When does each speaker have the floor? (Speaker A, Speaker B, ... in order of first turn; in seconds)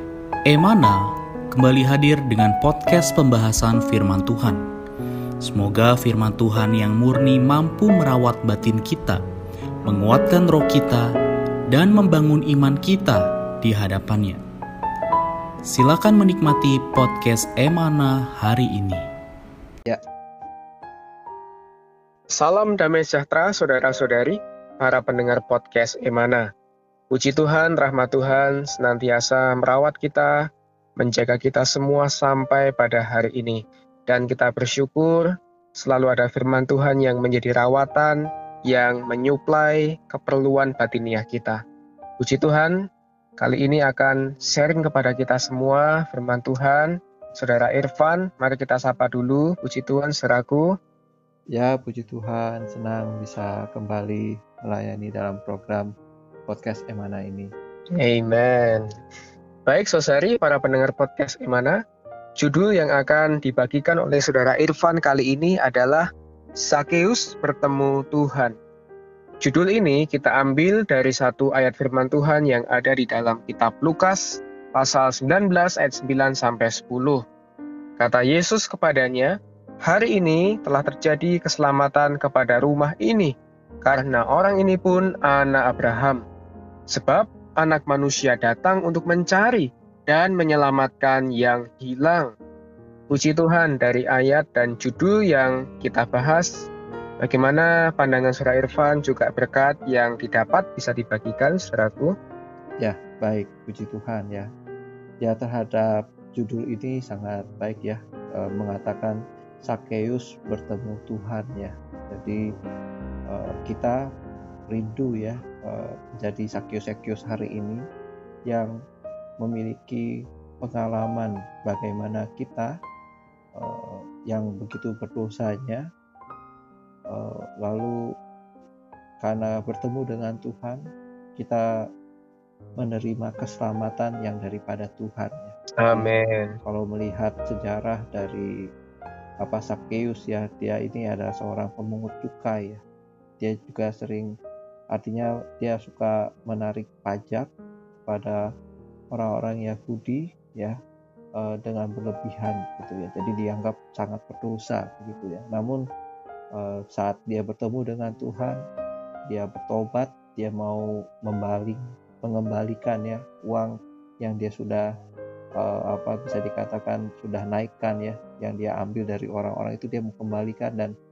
Speaker A: 0.5-4.6, 5.4-9.2, 9.8-11.1, 11.7-14.4, 15.7-19.1
Speaker B: 22.3-26.4, 27.1-30.4, 31.0-38.2, 38.7-41.6, 42.2-42.8, 43.4-50.7, 58.0-58.9, 59.7-61.8, 62.4-66.0, 66.7-68.5, 69.4-77.2, 78.0-79.3, 79.8-86.2, 86.9-92.3, 93.1-96.7, 97.2-102.1, 135.8-136.6
Speaker C: 51.5-55.9, 56.5-57.5, 102.8-104.5, 105.2-112.4, 113.3-114.0, 114.7-117.8, 119.4-120.1, 120.6-122.7, 123.6-125.8, 127.1-128.0, 129.2-130.8, 131.4-131.6, 132.8-136.1, 136.6-138.5, 139.4-142.8, 143.4-144.3, 144.9-147.5, 148.1-148.4, 149.1-150.8, 151.4-155.8, 156.6-158.6, 159.3-164.9, 165.6-170.9